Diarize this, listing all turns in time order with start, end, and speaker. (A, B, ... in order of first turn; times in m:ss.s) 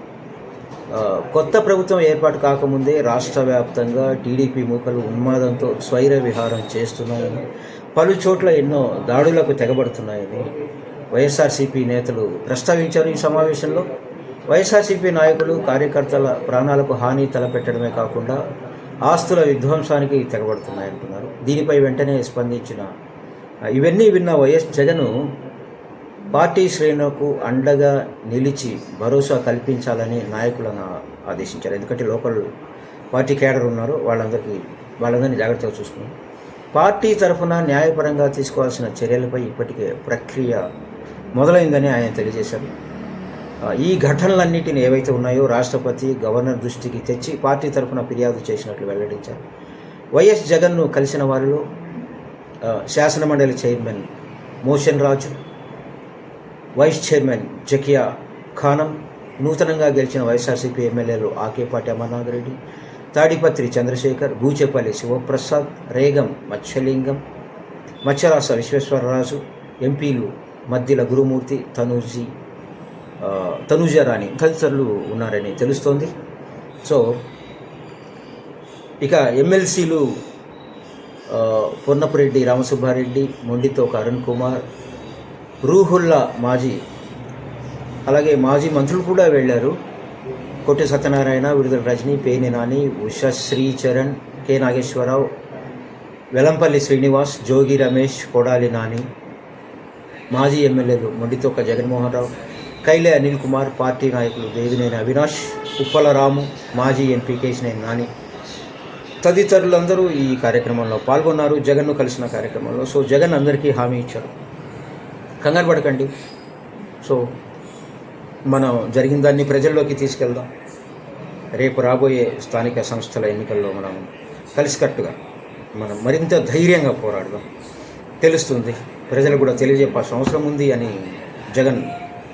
0:00.9-0:07.4 A
0:08.0-0:10.6 A
0:11.1-0:13.9 A
0:14.5-0:18.4 A
0:19.0-0:22.9 A
0:23.7-0:25.3 A
0:26.3-0:32.5 A
0:33.1-0:36.1 A
0:36.8-0:40.6 A
0:41.3-0:42.7 A
0:43.6-0:49.4 A
0:50.1-0:51.7 A
0:52.6-0:54.1 A
0:54.6-0:55.4 A
0:56.8-1:02.6 A
1:03.1-1:07.2 A
1:08.0-1:12.3 A
1:13.2-1:16.2 A
1:16.8-1:17.2 A
1:19.0-1:20.2 A
1:21.3-1:24.6 A
1:25.6-1:26.8 A
1:28.1-1:29.8 A
1:30.6-1:35.3 A
1:36.4-1:39.1 A
1:40.3-1:42.3 A
1:42.8-1:48.1 A
1:49.2-1:54.3 A
1:55.4-1:56.1 A
1:57.0-1:57.3 A
1:58.5-2:00.5 A
2:01.5-2:05.2 A
2:05.8-2:07.5 A
2:08.2-2:11.9 A